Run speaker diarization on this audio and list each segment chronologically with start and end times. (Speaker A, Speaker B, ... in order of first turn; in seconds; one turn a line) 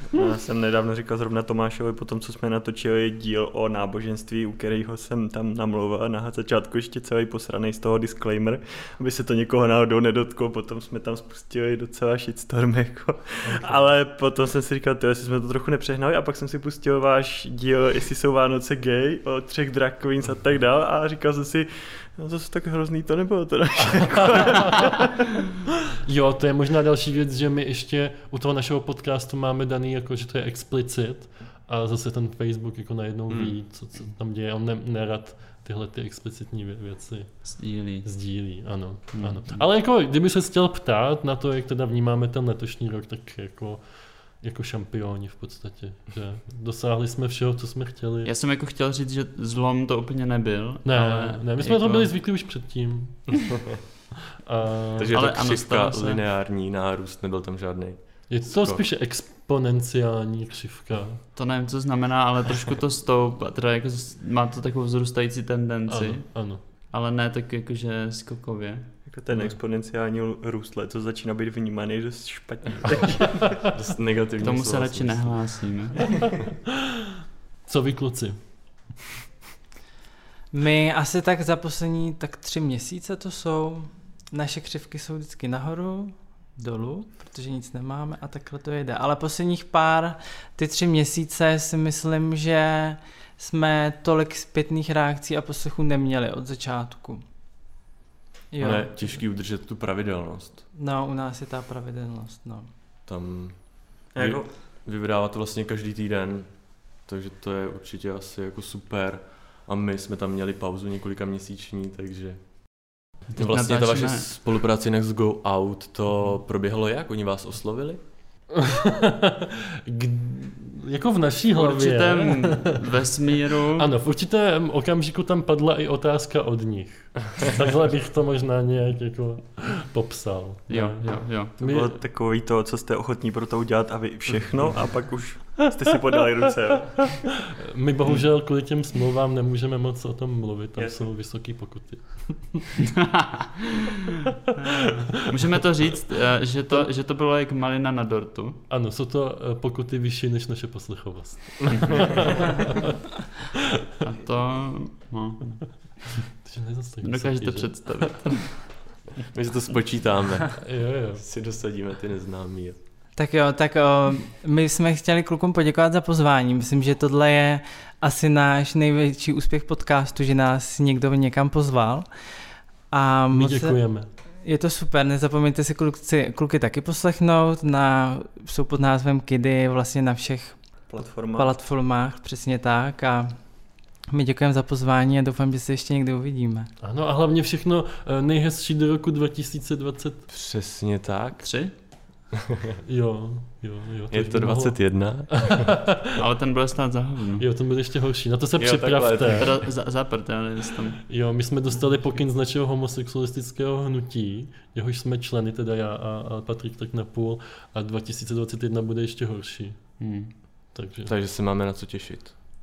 Speaker A: 0.1-25.0
Speaker B: 13.4-13.8
Speaker B: 24.2-25.1
Speaker B: 26.1-37.4
Speaker C: 37.4-38.1
Speaker B: 38.0-43.8
Speaker C: 39.1-39.6
Speaker B: 44.4-48.3
Speaker C: 48.2-52.1
Speaker B: 50.9-53.5
Speaker B: 54.5-55.1
Speaker D: 55.0-58.9
Speaker C: 55.1-56.2
Speaker B: 58.3-61.2
Speaker C: 61.4-68.9
Speaker B: 65.9-66.6
Speaker A: 69.1-73.5
Speaker B: 73.3-73.7
Speaker D: 73.6-75.4
Speaker C: 74.4-76.2
Speaker B: 77.7-78.4
Speaker E: 80.5-97.2
Speaker E: 98.5-98.9
Speaker D: 98.6-100.6
Speaker E: 100.7-102.7
Speaker D: 103.1-103.6
Speaker D: 104.2-106.5
Speaker A: 104.2-104.5
Speaker D: 107.0-112.4
Speaker D: 113.3-118.0
Speaker C: 113.4-114.2
Speaker B: 118.5-122.8
Speaker C: 121.5-123.9
Speaker B: 123.7-131.9
Speaker C: 130.7-131.6
Speaker A: 131.6-137.1
Speaker B: 137.0-142.7
Speaker A: 140.8-141.1
Speaker C: 142.8-143.8
Speaker B: 144.7-145.4
Speaker C: 144.8-148.6
Speaker B: 148.7-153.0
Speaker B: 153.6-153.9
Speaker C: 154.0-155.6
Speaker B: 156.4-158.2
Speaker C: 157.0-158.7
Speaker D: 159.3-162.8
Speaker B: 160.6-161.2
Speaker E: 163.2-172.1
Speaker E: 172.9-173.8
Speaker B: 173.3-174.1
Speaker E: 174.4-180.6
Speaker A: 180.9-181.5
Speaker E: 181.3-183.4
Speaker E: 184.1-186.7
Speaker B: 186.8-190.3
Speaker D: 190.3-191.4
Speaker C: 191.4-191.7
Speaker B: 192.9-196.2
Speaker D: 194.1-195.7
Speaker C: 196.2-197.5
Speaker B: 197.4-199.6
Speaker D: 198.6-199.6
Speaker C: 199.4-201.0
Speaker B: 201.1-209.8
Speaker C: 210.0-210.3
Speaker B: 210.7-211.1
Speaker D: 211.1-212.3